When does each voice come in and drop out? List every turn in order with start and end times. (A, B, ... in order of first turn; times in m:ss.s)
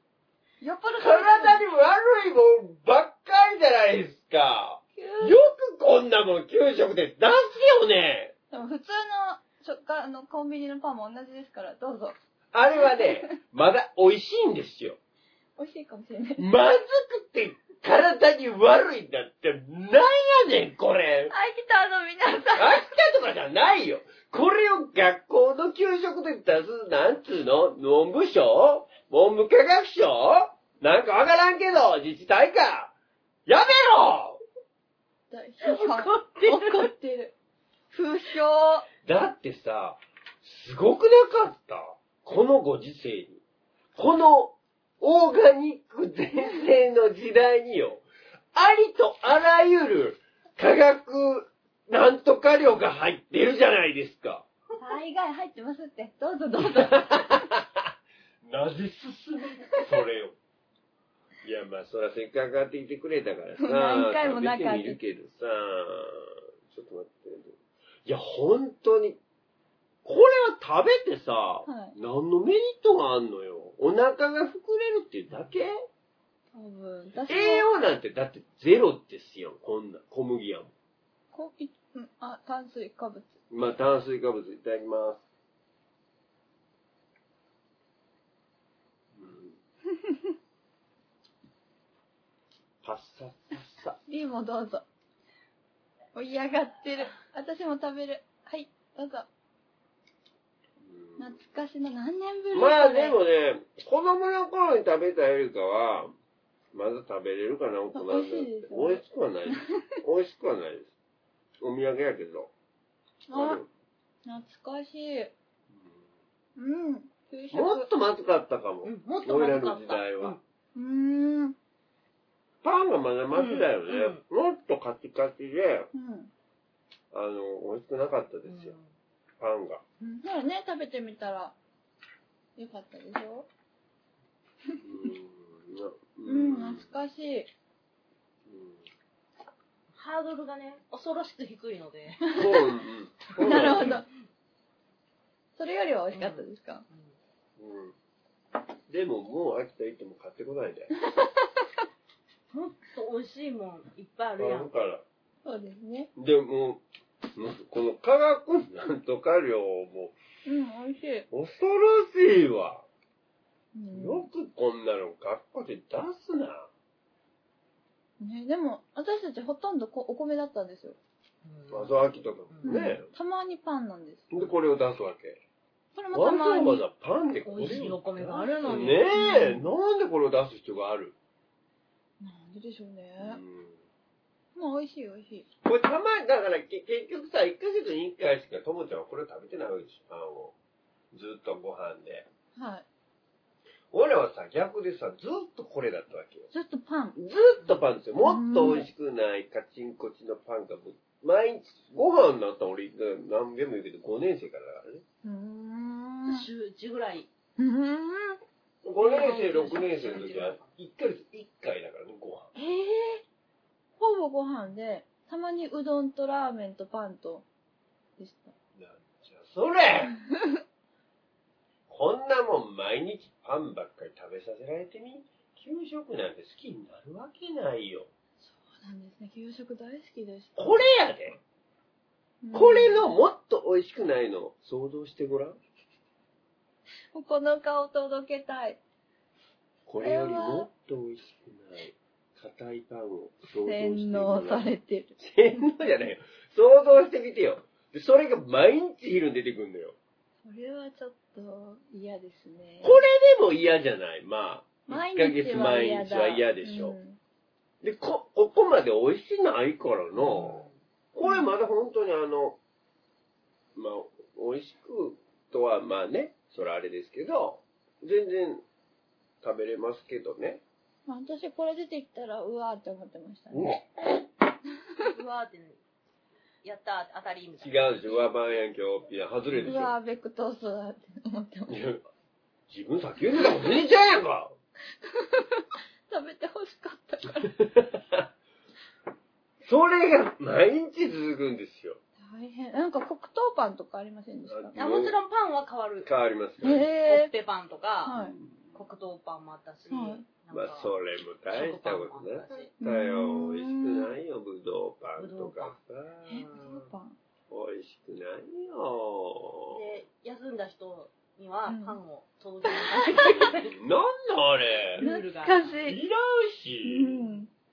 0:00.6-0:01.6 A
0:01.0-0:08.3 B
0:05.0-0:05.4 A
0:08.5-0:12.2 A
0:12.5-0:15.0 B
0:12.8-0:13.4 A
0:15.6-0:16.5 A
0:16.4-0:21.3 B
0:21.3-0:22.9 A
0:22.6-0:32.9 B
0:33.5-0:34.4 B
0:35.3-0:37.3 A
0:35.9-0:36.6 B
0:37.9-0:38.9 A
0:39.0-0:43.4 B
0:44.0-0:54.5 B
0:54.8-0:57.5 A
0:56.6-0:57.9 B
0:58.4-1:00.4 B
1:01.4-1:09.2 B
1:03.6-1:05.0 A
1:10.0-1:15.8 B
1:11.7-1:12.0 A
1:16.5-1:17.7 A
1:17.3-1:20.7 B
1:21.3-1:23.4 A
1:23.5-1:25.2 B
1:29.1-1:29.6 B
1:32.8-1:34.0 B
1:34.1-1:34.9 A
1:36.2-1:39.3 A
1:40.8-1:41.4 B
1:41.2-1:43.2 A
1:42.5-1:46.1 B
1:46.7-1:50.9 B
1:47.9-1:50.0 A
1:51.6-1:52.5 B
1:53.3-1:53.6 A
1:53.3-1:53.7 B
1:54.2-1:55.3 A
1:55.7-1:56.0 B
1:56.6-1:57.9 A
1:57.5-2:00.4 B
1:58.8-2:00.4 C
2:00.8-2:01.6 A
2:02.6-2:05.9 B
2:03.3-2:04.2 C
2:05.9-2:06.3 A
2:07.1-2:08.8 B
2:08.5-2:08.9 C
2:09.4-2:09.8 B
2:10.0-2:11.6 A
2:12.6-2:13.5 A
2:14.7-2:15.1 A
2:14.8-2:16.9 B
2:16.2-2:17.5 A
2:18.5-2:18.8 B
2:19.9-2:22.4 C
2:22.2-2:22.6 A
2:22.4-2:24.0 B
2:23.4-2:24.1 A
2:23.6-2:23.9 C
2:25.6-2:26.8 A
2:26.1-2:27.1 C
2:27.6-2:28.0 B
2:28.9-2:30.9 B
2:31.0-2:31.5 A
2:32.5-2:34.7 C
2:34.4-2:35.0 B
2:35.4-2:36.1 A
2:36.2-2:36.8 B
2:37.4-2:40.2 B
2:40.5-2:41.3 A
2:41.3-2:42.9 B
2:43.8-2:44.3 A
2:43.9-2:46.7 B
2:48.2-2:51.0 A
2:51.4-2:52.0 C
2:51.7-2:53.1 B
2:52.5-2:52.8 C
2:52.6-2:54.3 A
2:54.3-2:55.4 B
2:56.0-2:56.8 A
2:56.1-3:01.2 B
2:57.5-2:59.0 C
2:59.1-2:59.7 A
3:02.2-3:03.4 A
3:03.2-3:03.8 B
3:04.6-3:05.5 A
3:05.6-3:10.6 B
3:11.1-3:12.3 B
3:12.6-3:12.9 A
3:13.9-3:16.5 B
3:16.5-3:17.2 A
3:17.2-3:25.0 B
3:18.2-3:18.9 A
3:25.2-3:26.5 A
3:26.3-3:27.3 C
3:27.6-3:28.4 A
3:28.8-3:32.5 B
3:29.0-3:30.7 C
3:32.6-3:33.2 A
3:34.0-3:37.5 A
3:38.2-3:38.5 A
3:38.8-3:40.1 B
3:41.9-3:48.1 B
3:48.4-3:50.8 A
3:50.6-3:51.4 B
3:52.4-3:53.1 A
3:52.5-3:55.6 B
3:57.1-3:58.8 A
3:59.9-4:10.0 B
4:00.0-4:00.7 A
4:03.6-4:05.2 A
4:10.4-4:13.0 A
4:12.8-4:17.0 B
4:14.9-4:17.2 A
4:17.8-4:22.6 B
4:20.2-4:20.8 C
4:21.2-4:21.5 A
4:23.8-4:28.6 B
4:29.4-4:30.6 B
4:31.1-4:33.8 A
4:33.5-4:34.2 B
4:35.0-4:35.8 C
4:36.6-4:38.3 C
4:37.6-4:39.9 B
4:39.6-4:41.8 A
4:41.7-4:42.0 B
4:42.7-4:44.6 B
4:45.0-4:47.6 A
4:47.6-4:48.3 B
4:49.6-4:52.0 B
4:52.2-4:54.8 A
4:54.5-4:55.2 B
4:54.8-4:56.1 C
4:56.0-4:56.9 B
4:56.6-4:57.3 A
4:57.0-4:58.2 C
4:58.0-4:58.4 A
4:58.1-4:58.8 B
4:58.7-5:00.9 C
4:59.9-5:00.3 A
5:00.5-5:06.8 B
5:01.5-5:02.7 C
5:02.8-5:04.2 A
5:05.2-5:05.8 C
5:06.3-5:07.2 A
5:07.5-5:10.0 B
5:09.7-5:13.8 C
5:11.7-5:12.0 A
5:12.7-5:13.5 A
5:13.4-5:15.0 B
5:14.9-5:15.8 C
5:15.0-5:16.0 A
5:15.8-5:17.3 B
5:16.8-5:17.5 A